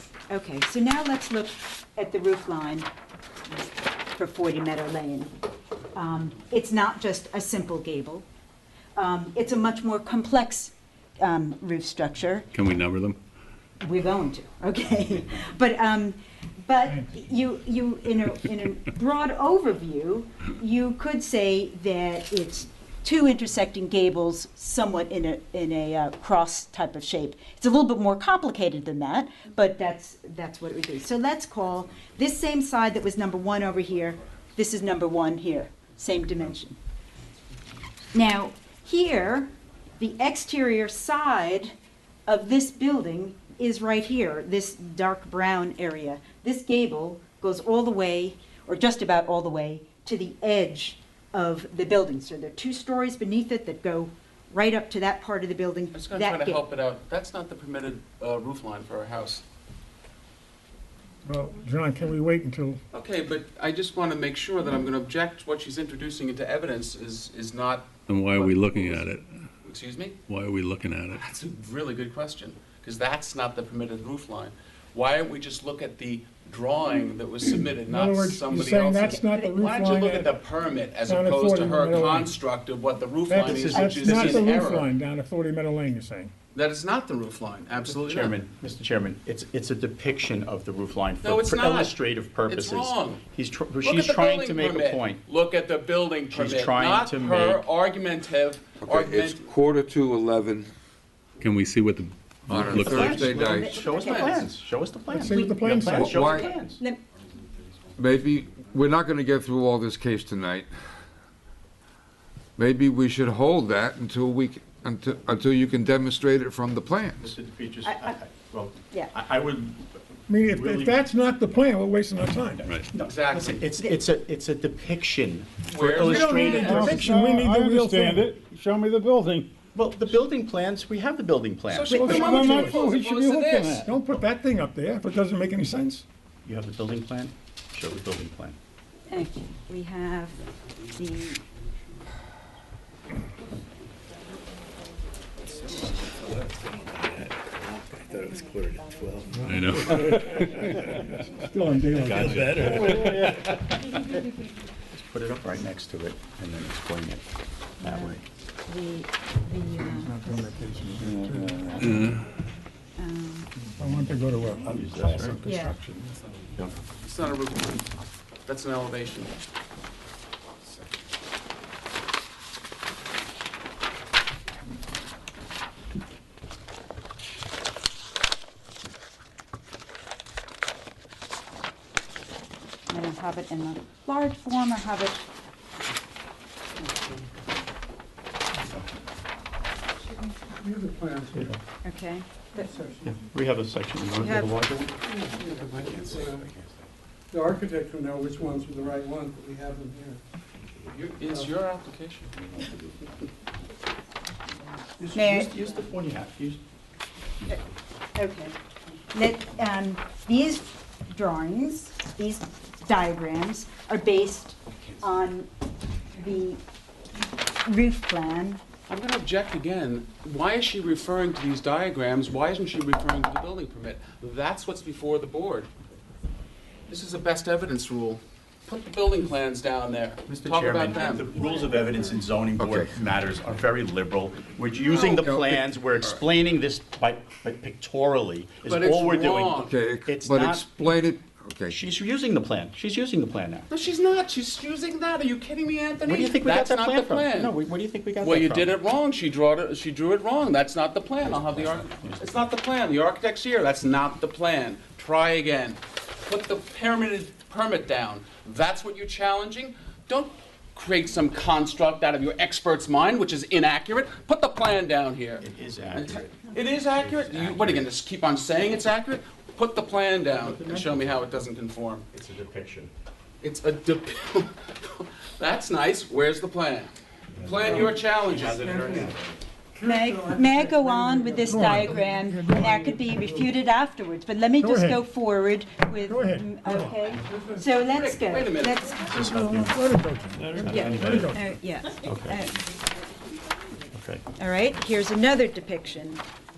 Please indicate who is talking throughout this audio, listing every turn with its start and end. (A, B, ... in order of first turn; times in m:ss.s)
0:00.3-0:02.9 A
0:04.1-0:05.3 A
0:06.0-0:08.2 A
0:09.0-0:12.5 A
0:12.5-0:13.2 B
0:13.8-0:36.8 A
0:38.1-0:41.7 A
0:42.3-0:56.6 A
0:55.9-0:59.4 C
1:01.2-1:02.8 D
1:02.9-1:09.1 C
1:08.1-1:09.4 B
1:09.6-1:10.2 C
1:10.3-1:11.2 B
1:11.1-1:24.9 C
1:17.8-1:20.4 D
1:21.0-1:22.3 D
1:23.3-1:26.3 D
1:23.4-1:24.6 E
1:26.5-1:28.4 C
1:27.9-1:35.2 E
1:31.2-1:33.2 C
1:33.8-1:39.5 C
1:36.3-1:37.6 E
1:38.8-1:40.7 F
1:41.4-1:43.4 B
1:42.5-1:43.8 F
1:42.7-1:46.8 E
1:43.5-1:44.5 A
1:43.9-1:44.3 C
1:45.1-1:46.1 D
1:45.2-1:47.0 A
1:45.9-1:46.5 F
1:48.0-1:50.7 F
1:52.6-1:57.2 F
1:57.2-2:01.0 E
1:57.9-1:58.2 A
2:00.3-2:02.7 D
2:02.6-2:07.2 E
2:03.0-2:03.6 C
2:05.7-2:07.1 C
2:05.8-2:08.3 D
2:06.6-2:09.5 G
2:09.7-2:12.1 E
2:11.7-2:13.9 C
2:11.9-2:12.6 A
2:11.9-2:12.9 D
2:12.0-2:13.9 G
2:13.8-2:16.0 D
2:16.4-2:18.6 E
2:19.1-2:20.4 A
2:21.0-2:21.4 A
2:25.5-2:26.4 C
2:26.7-2:31.0 B
2:29.4-2:30.5 D
2:31.5-2:33.0 D
2:32.0-2:33.5 B
2:32.1-2:33.3 G
2:34.9-2:37.3 E
2:37.8-2:38.2 E
2:37.8-2:40.5 A
2:39.8-2:42.1 D
2:41.8-2:42.2 B
2:43.0-2:43.5 A
2:43.6-2:45.6 D
2:44.6-2:46.8 E
2:45.4-2:45.8 A
2:46.8-2:47.9 C
2:48.5-2:49.3 C
3:02.9-3:05.3 A
3:10.6-3:11.6 H
3:11.8-3:12.7 A
3:12.6-3:13.2 H
3:13.1-3:14.9 E
3:14.2-3:14.5 A
3:15.1-3:16.5 H
3:15.8-3:16.7 E
3:17.3-3:20.2 H
3:20.9-3:22.3 C
3:25.0-3:26.6 E
3:25.1-3:25.5 A
3:28.2-3:28.6 A
3:29.1-3:35.5 A
3:36.1-3:36.6 A
3:37.6-3:38.6 A
3:38.9-3:45.7 C
3:46.9-3:51.3 C
3:50.3-4:00.8 E
3:52.6-3:52.9 F
3:54.9-3:55.6 F
3:58.7-3:59.8 C
3:59.6-4:01.8 F
4:01.7-4:03.7 E
4:03.7-4:07.6 C
4:06.0-4:08.8 E
4:08.2-4:32.1 C
4:11.2-4:12.4 E
4:25.4-4:27.9 E
4:30.3-4:31.2 E
4:32.1-4:32.9 E
4:33.4-4:39.0 C
4:37.4-4:39.2 E
4:39.8-4:41.6 H
4:39.8-4:49.8 A
4:41.5-4:42.7 D
4:42.8-4:43.4 H
4:44.6-4:45.0 D
4:46.0-4:47.0 D
4:47.9-4:48.9 C
4:49.1-4:49.8 E
4:49.2-4:51.5 D
4:50.6-4:51.3 E
4:50.7-4:52.6 A
4:52.0-4:52.4 E
4:53.9-4:54.2 E
4:54.4-4:56.2 A